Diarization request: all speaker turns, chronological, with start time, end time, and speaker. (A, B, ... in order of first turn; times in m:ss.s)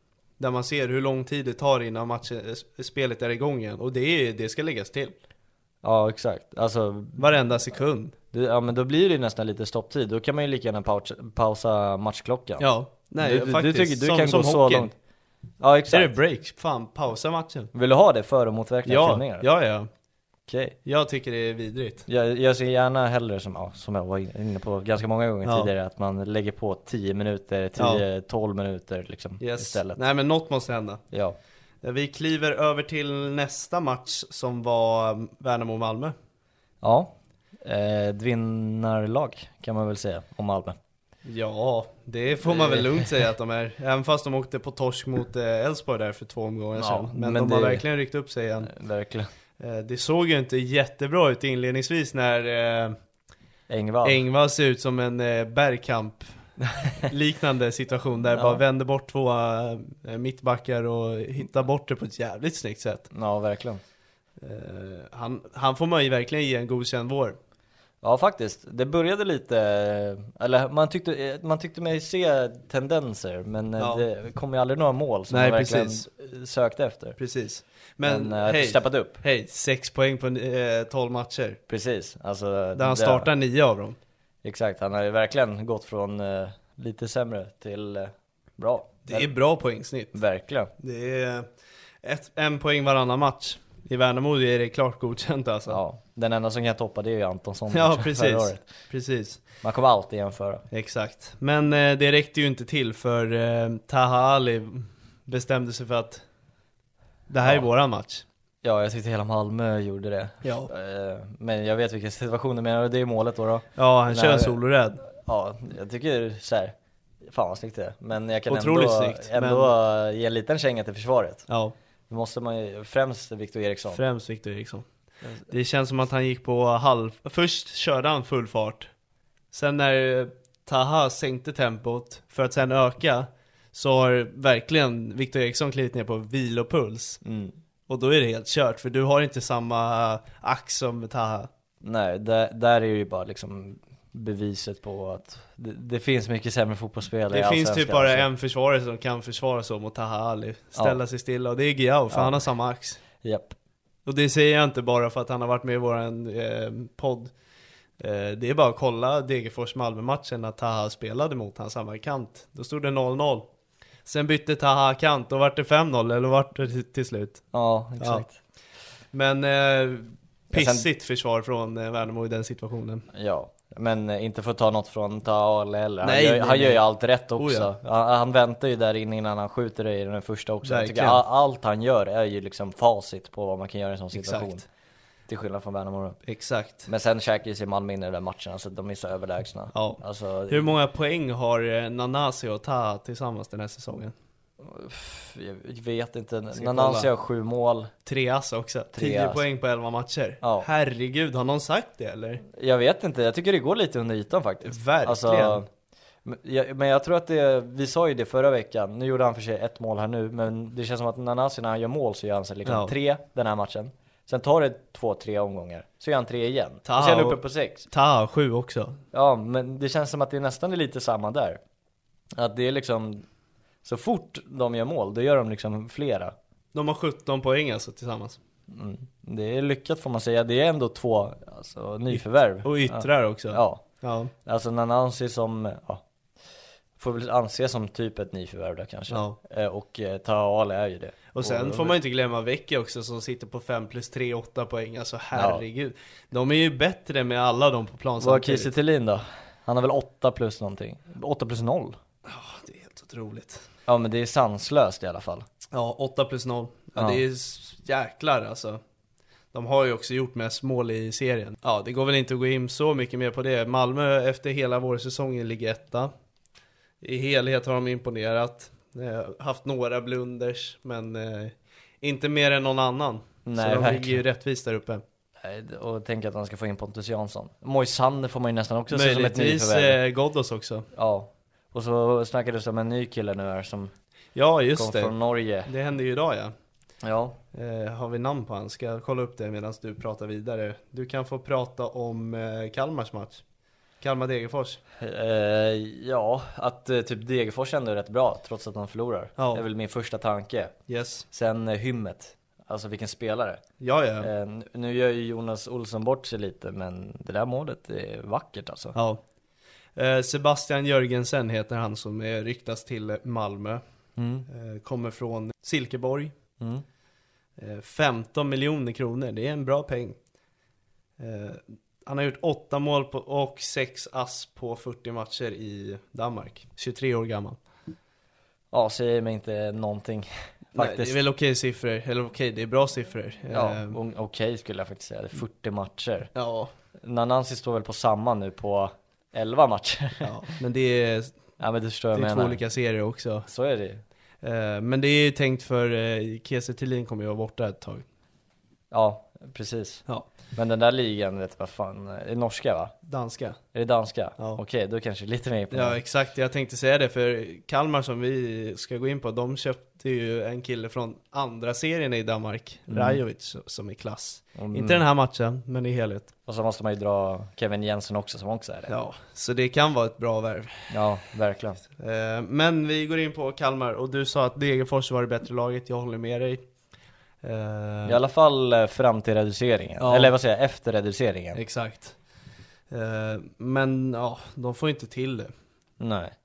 0:00.4-0:05.2 A
0:05.8-0:07.2 B
0:07.2-0:08.1 A
0:08.3-0:12.7 B
0:12.6-0:14.9 A
0:13.2-0:14.9 B
0:15.6-0:16.1 B
0:15.9-0:17.7 A
0:17.7-0:19.5 B
0:18.8-0:19.9 A
0:20.5-0:20.8 B
0:20.8-0:22.0 A
0:22.0-0:30.0 B
0:25.4-0:25.7 A
0:27.8-0:28.0 A
0:29.4-0:31.0 A
0:31.1-0:31.4 B
0:31.8-0:36.1 A
0:36.8-0:40.8 B
0:41.2-0:48.7 A
0:42.4-0:43.0 B
0:46.8-0:47.8 B
0:48.6-0:49.3 B
0:49.6-0:52.9 A
0:53.7-0:54.2 B
0:54.0-1:03.1 A
0:58.3-0:58.6 B
1:03.1-1:03.8 B
1:04.4-1:07.4 A
1:08.0-1:17.2 B
1:13.8-1:14.0 A
1:15.3-1:16.0 A
1:17.2-1:21.6 A
1:18.0-1:19.2 B
1:21.7-1:23.3 B
1:22.7-1:24.0 A
1:24.4-1:29.3 B
1:29.0-1:30.2 A
1:30.1-1:30.7 B
1:30.8-1:31.5 A
1:32.0-1:35.8 A
1:35.7-1:38.6 B
1:37.7-1:39.4 A
1:39.6-1:40.6 B
1:40.7-1:46.2 A
1:47.3-1:48.2 A
1:47.4-1:47.7 B
1:48.6-1:54.5 B
1:50.4-1:50.7 A
1:53.8-1:55.0 A
1:55.1-2:01.4 B
1:58.5-1:59.7 A
2:01.5-2:01.7 A
2:02.1-2:04.0 B
2:03.9-2:04.8 A
2:05.5-2:08.9 A
2:09.5-2:17.2 A
2:17.2-2:17.6 B
2:17.9-2:21.5 A
2:21.8-2:28.2 B
2:27.3-2:33.0 A
2:32.1-2:32.4 B
2:33.2-2:33.6 B
2:34.0-2:37.3 A
2:38.0-2:43.5 A
2:44.0-2:47.4 A
2:47.5-2:48.4 B
2:48.0-2:48.3 A
2:49.1-2:53.1 A
2:50.5-2:50.9 B
2:53.1-3:04.6 B
2:56.0-2:56.8 A
2:57.4-2:57.7 A
3:00.6-3:01.2 A
3:04.1-3:04.6 A
3:05.3-3:06.2 B
3:06.3-3:06.9 A
3:06.9-3:10.7 B
3:09.7-3:14.1 A
3:14.6-3:17.9 B
3:16.5-3:17.1 A
3:18.0-3:22.4 A
3:18.9-3:19.4 B
3:20.4-3:20.7 B
3:22.5-3:25.7 B
3:24.6-3:25.6 A
3:26.2-3:37.8 B
3:32.6-3:32.9 A
3:36.8-3:39.0 A
3:39.1-3:41.6 B
3:42.4-3:43.2 B
3:43.8-3:46.3 B
3:46.7-3:48.4 A
3:48.7-3:53.8 B
3:52.1-3:54.3 A
3:54.4-3:56.0 B
3:57.0-4:02.0 B
3:59.1-3:59.4 A
4:01.3-4:08.7 A
4:05.3-4:05.6 B
4:08.2-4:12.0 B
4:12.2-4:13.6 A
4:13.9-4:15.4 B
4:15.7-4:18.8 A
4:17.0-4:17.2 B
4:19.5-4:26.1 A
4:27.0-4:35.0 A
4:33.4-4:34.2 B
4:35.4-4:40.0 B
4:38.9-4:40.9 A
4:40.9-4:43.9 B
4:44.3-4:45.1 A
4:44.7-4:45.7 B
4:45.6-4:46.5 A
4:47.0-4:47.4 B
4:47.5-4:53.4 A
4:54.0-4:54.8 A
4:55.0-5:00.7 B
4:59.4-4:59.6 A
5:00.9-5:01.2 A
5:01.3-5:03.6 B
5:03.8-5:04.3 A
5:04.2-5:09.0 B
5:08.9-5:09.2 A
5:10.0-5:13.8 A
5:14.2-5:14.4 B
5:14.5-5:16.3 A
5:17.6-5:20.2 A
5:21.2-5:27.6 A
5:28.7-5:31.2 B
5:30.7-5:34.0 A
5:33.5-5:36.3 B
5:36.3-5:36.7 A
5:37.0-5:40.3 B
5:40.2-5:41.3 A
5:41.6-5:42.6 B
5:42.1-5:43.5 A
5:43.5-5:44.0 B
5:44.4-5:48.0 A
5:48.9-5:52.9 B
5:53.0-5:53.6 A
5:53.7-5:56.0 B
5:55.7-6:06.3 A
6:02.9-6:03.2 B
6:04.6-6:05.0 B
6:06.4-6:08.9 B
6:08.9-6:11.0 A
6:10.9-6:11.8 B
6:12.0-6:16.6 A
6:17.4-6:18.2 A
6:18.0-6:21.6 B
6:20.0-6:20.3 A
6:21.5-6:22.2 A
6:22.9-6:25.5 A
6:26.0-6:26.3 B